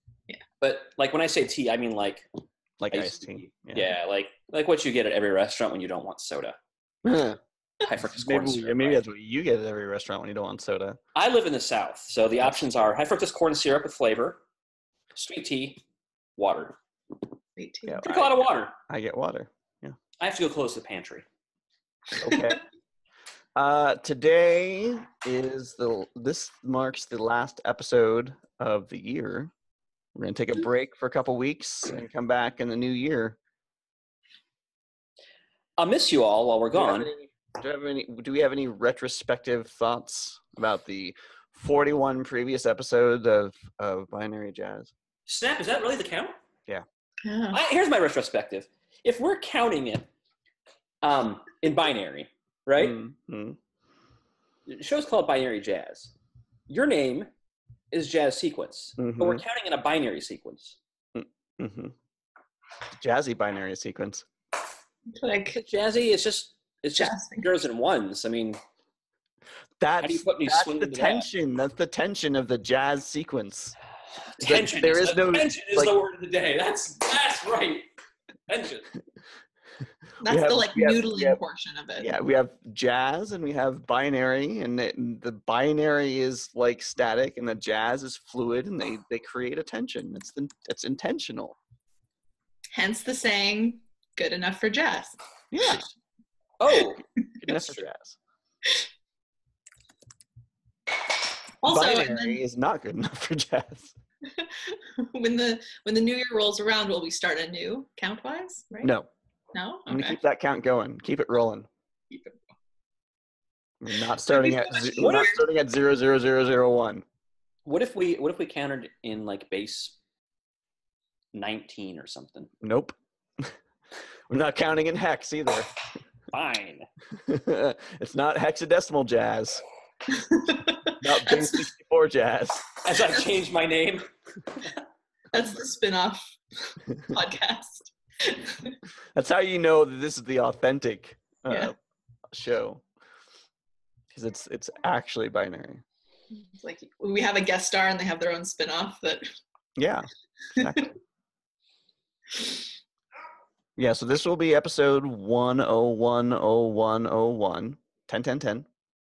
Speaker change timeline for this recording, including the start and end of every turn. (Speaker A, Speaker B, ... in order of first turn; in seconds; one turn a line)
Speaker A: 0.6-2.3
Speaker B: 2.8-4.0
Speaker A: 2.9-6.6
Speaker B: 7.0-7.4
Speaker A: 7.8-9.0
Speaker B: 8.2-11.0
Speaker A: 11.2-14.4
Speaker A: 15.2-15.8
Speaker A: 16.4-16.8
Speaker C: 17.6-18.2
Speaker B: 17.9-18.3
Speaker A: 18.0-18.7
Speaker B: 18.9-20.0
Speaker A: 20.2-21.2
Speaker B: 22.2-22.6
Speaker B: 23.6-29.5
Speaker B: 30.1-33.4
Speaker A: 35.8-37.1
Speaker B: 36.8-44.9
Speaker A: 45.3-46.4
Speaker C: 47.2-47.6
Speaker A: 47.5-50.1
Speaker A: 51.0-53.0
Speaker B: 52.8-53.6
Speaker A: 54.7-56.1
Speaker A: 56.7-57.3
Speaker A: 57.9-60.8
Speaker B: 59.0-59.4
Speaker B: 61.1-62.0
Speaker B: 62.9-64.3
Speaker C: 65.2-65.6
Speaker A: 65.6-68.6
Speaker C: 67.0-67.5
Speaker B: 69.8-73.8
Speaker A: 70.0-71.3
Speaker A: 74.3-77.9
Speaker B: 74.4-75.9
Speaker A: 78.5-78.9
Speaker C: 80.2-82.1
Speaker B: 80.3-81.4
Speaker B: 82.0-91.6
Speaker C: 92.8-95.2
Speaker B: 95.5-95.9
Speaker A: 96.6-97.9
Speaker B: 97.4-98.2
Speaker C: 101.6-102.4
Speaker B: 101.7-103.9
Speaker C: 104.4-108.9
Speaker B: 108.8-109.1
Speaker C: 109.5-110.2
Speaker B: 109.9-111.7
Speaker C: 112.1-112.4
Speaker B: 113.8-117.0
Speaker C: 114.2-115.4
Speaker A: 115.0-115.4
Speaker A: 117.7-120.0
Speaker A: 121.3-122.5
Speaker B: 122.6-123.5
Speaker B: 124.3-125.7
Speaker A: 126.3-126.9
Speaker B: 127.1-129.6
Speaker C: 130.1-131.6
Speaker B: 131.0-132.8
Speaker A: 132.8-134.1
Speaker C: 135.3-138.8
Speaker B: 139.2-141.8
Speaker B: 142.3-142.8
Speaker B: 144.1-145.8
Speaker C: 146.3-149.3
Speaker B: 149.8-151.0
Speaker B: 153.8-158.7